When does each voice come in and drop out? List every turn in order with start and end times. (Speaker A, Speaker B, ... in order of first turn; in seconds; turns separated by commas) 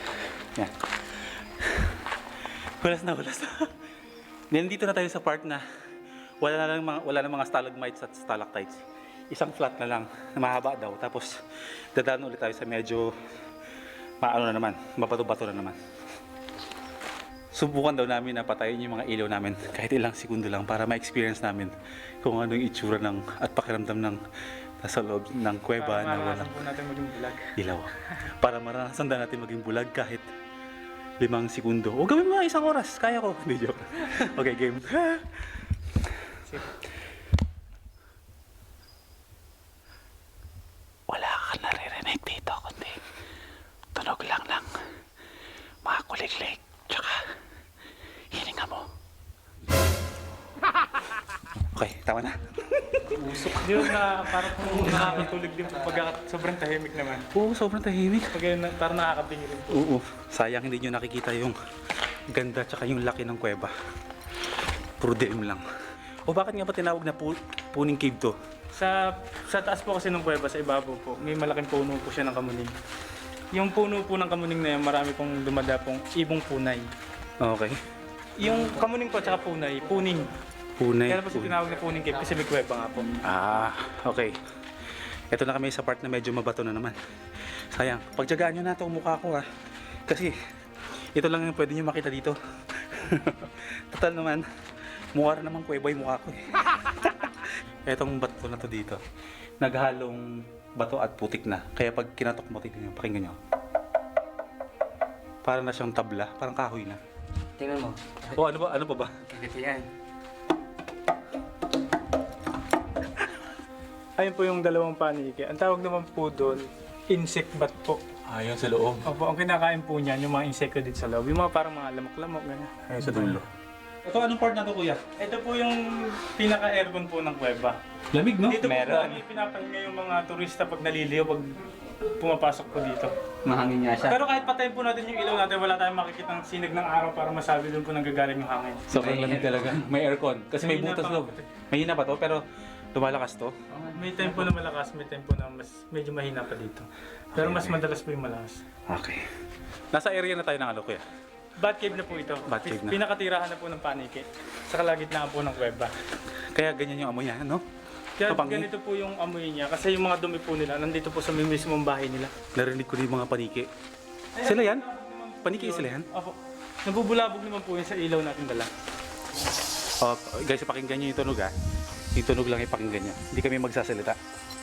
Speaker A: 0.2-2.0, Speaker A: 2.8-3.7, Speaker A: 4.5-5.6, Speaker A: 6.4-11.4, Speaker A: 11.9-13.1, Speaker A: 14.2-15.8, Speaker A: 17.5-24.2, Speaker A: 24.8-26.6, Speaker B: 25.8-27.5, Speaker A: 27.6-30.3, Speaker A: 31.2-35.4, Speaker A: 41.1-43.0, Speaker A: 43.9-44.7, Speaker A: 45.8-47.3, Speaker A: 48.3-48.9, Speaker A: 51.5-55.2, Speaker B: 53.5-57.2, Speaker A: 57.3-58.3, Speaker B: 58.3-59.8, Speaker A: 59.7-61.5, Speaker A: 62.3-63.7, Speaker A: 65.0-65.6, Speaker A: 66.3-68.3, Speaker B: 68.7-72.7, Speaker B: 73.5-76.8, Speaker A: 77.4-77.8, Speaker B: 78.4-80.3, Speaker A: 80.8-81.6, Speaker B: 81.1-83.1, Speaker A: 83.2-84.4, Speaker A: 85.3-87.0, Speaker A: 87.5-89.5, Speaker A: 90.1-90.3, Speaker A: 91.1-94.4, Speaker A: 95.1-99.0, Speaker A: 99.6-103.4, Speaker A: 105.4-107.0, Speaker C: 107.6-108.3, Speaker A: 108.3-109.1, Speaker C: 109.3-109.9, Speaker B: 114.2-118.0, Speaker A: 118.2-119.1, Speaker B: 119.0-123.4, Speaker A: 122.9-123.5, Speaker A: 124.0-125.0, Speaker B: 125.2-127.8, Speaker A: 128.1-129.2, Speaker B: 128.5-131.5, Speaker B: 132.2-133.1, Speaker C: 133.4-134.2, Speaker B: 134.1-138.9, Speaker A: 138.9-143.5, Speaker C: 138.9-139.7, Speaker B: 140.6-141.5, Speaker C: 143.7-144.4, Speaker B: 143.9-148.6, Speaker A: 147.3-147.8, Speaker A: 148.9-149.2, Speaker A: 149.9-151.0, Speaker B: 151.6-155.9, Speaker A: 152.4-153.0, Speaker A: 156.5-157.6, Speaker B: 158.2-162.3, Speaker A: 158.2-158.7, Speaker A: 162.5-163.7, Speaker B: 164.3-168.7, Speaker A: 164.4-164.8, Speaker A: 165.4-166.1, Speaker A: 170.0-171.5, Speaker A: 172.1-174.2